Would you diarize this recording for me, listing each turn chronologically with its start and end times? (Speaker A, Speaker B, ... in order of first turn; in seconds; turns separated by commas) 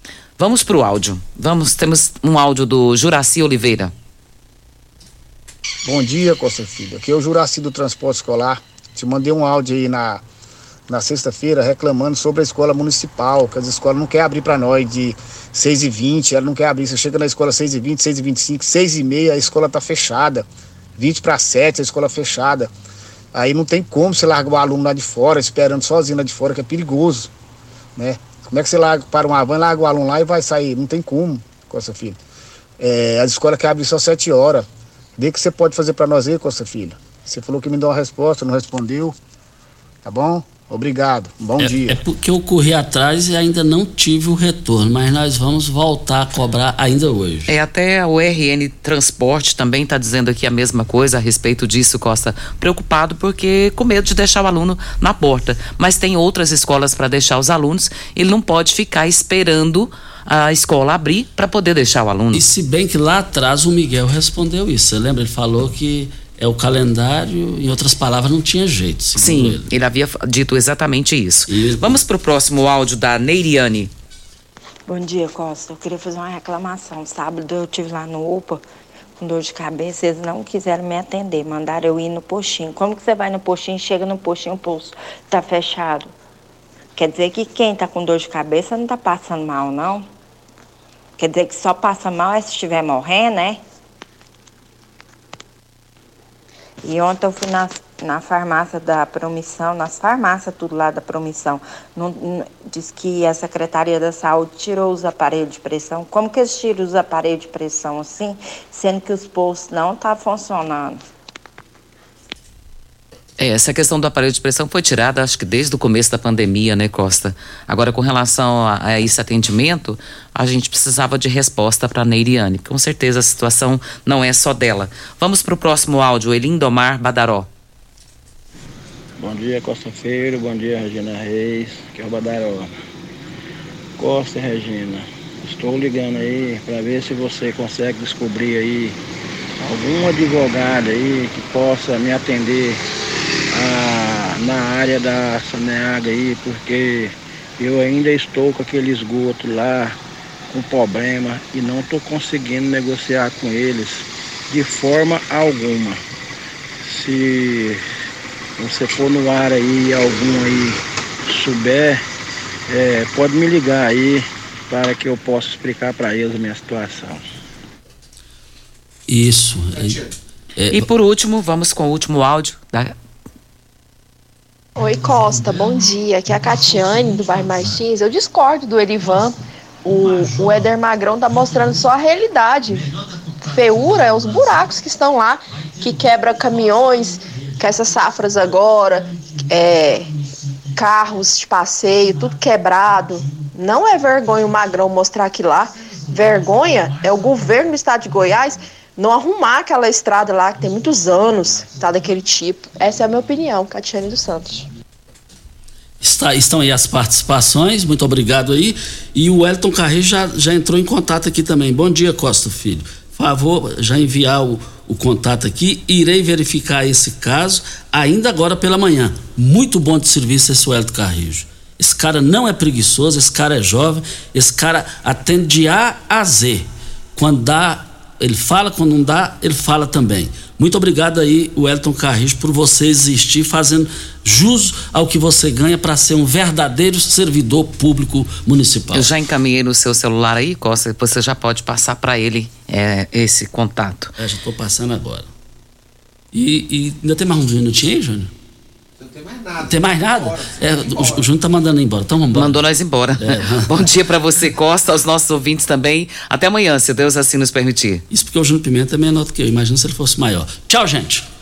Speaker A: 0.4-3.9, Speaker B: 5.8-10.2, Speaker B: 10.9-20.5, Speaker B: 21.0-22.7, Speaker B: 23.3-27.3, Speaker B: 28.0-32.2, Speaker B: 32.8-34.7, Speaker B: 35.2-39.1, Speaker B: 40.0-41.9, Speaker C: 41.6-47.5, Speaker A: 47.5-62.4, Speaker C: 62.3-69.7, Speaker A: 69.2-73.9, Speaker C: 71.5-72.0, Speaker D: 74.9-78.6, Speaker D: 79.2-86.1, Speaker D: 87.0-90.1, Speaker D: 91.2-93.6, Speaker D: 96.8-111.0, Speaker A: 113.4-127.5, Speaker E: 129.2-132.7, Speaker E: 134.0-139.0, Speaker E: 139.6-142.8, Speaker E: 143.5-150.0, Speaker E: 150.5-156.0, Speaker E: 156.8-157.8, Speaker E: 158.6-162.0, Speaker E: 162.7-167.2, Speaker C: 169.1-170.8, Speaker A: 170.7-172.9, Speaker F: 174.8-182.9, Speaker F: 183.5-190.1, Speaker F: 190.7-204.7, Speaker C: 206.0-239.1, Speaker A: 238.9-244.1, Speaker C: 244.2-245.3, Speaker C: 246.3-248.3, Speaker C: 249.6-252.6, Speaker A: 252.3-258.0, Speaker C: 253.2-253.8, Speaker C: 258.1-261.3